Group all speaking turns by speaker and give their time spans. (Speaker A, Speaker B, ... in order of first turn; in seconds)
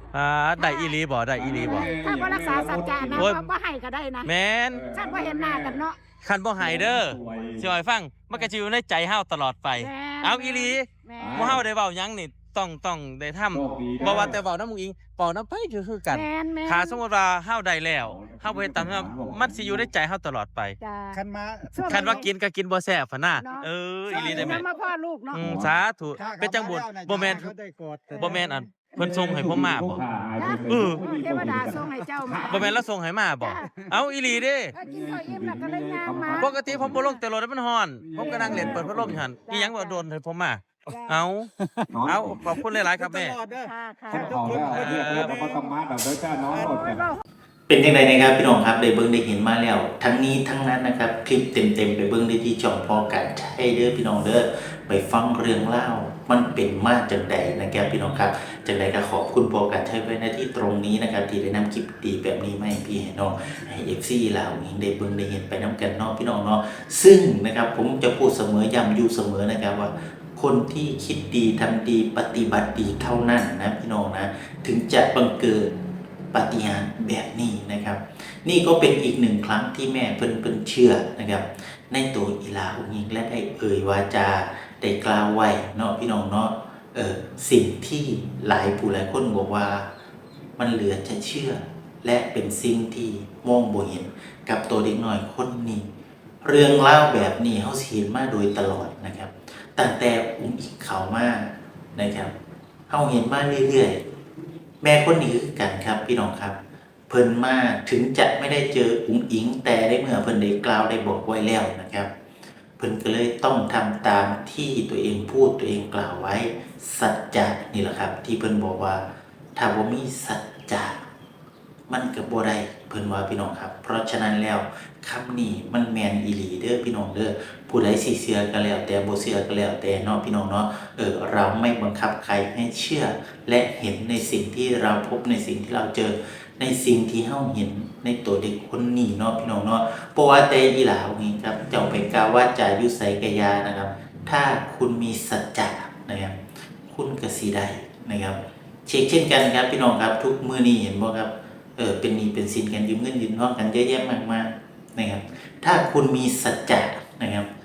Speaker A: 0.1-1.9, 3.1-3.5, 4.2-4.8, 6.2-20.8, 21.9-24.6, 25.3-27.5, 28.2-30.0, 30.7-31.0, 32.5-34.7, 36.3-41.5, 42.1-43.3, 44.7-45.3
Speaker B: 0.6-1.0, 1.6-4.3, 4.9-6.0, 9.8-11.6, 16.1-17.0, 20.8-21.2, 21.7-22.3, 23.4-25.6, 28.1-28.4, 30.4-32.7, 33.4-37.2, 38.2-40.0, 43.5-44.6, 46.5-47.2
Speaker C: 1.3-3.3, 4.7-5.8, 6.6-7.7, 11.2-11.7, 13.5-14.4, 18.0-19.9, 24.3-24.6, 25.3-25.8, 29.0-32.8, 34.8-37.0, 38.0-39.2, 41.9-42.5, 44.1-47.1
Speaker D: 21.1-22.2, 24.1-24.6, 26.1-28.6, 41.6-41.9, 42.5-45.7, 46.5-46.8
Speaker E: 47.7-75.7, 76.3-89.9, 90.6-95.9, 96.4-102.3, 102.9-104.0, 104.8-106.6, 107.1-112.1, 112.8-119.0, 119.5-121.0, 121.9-157.5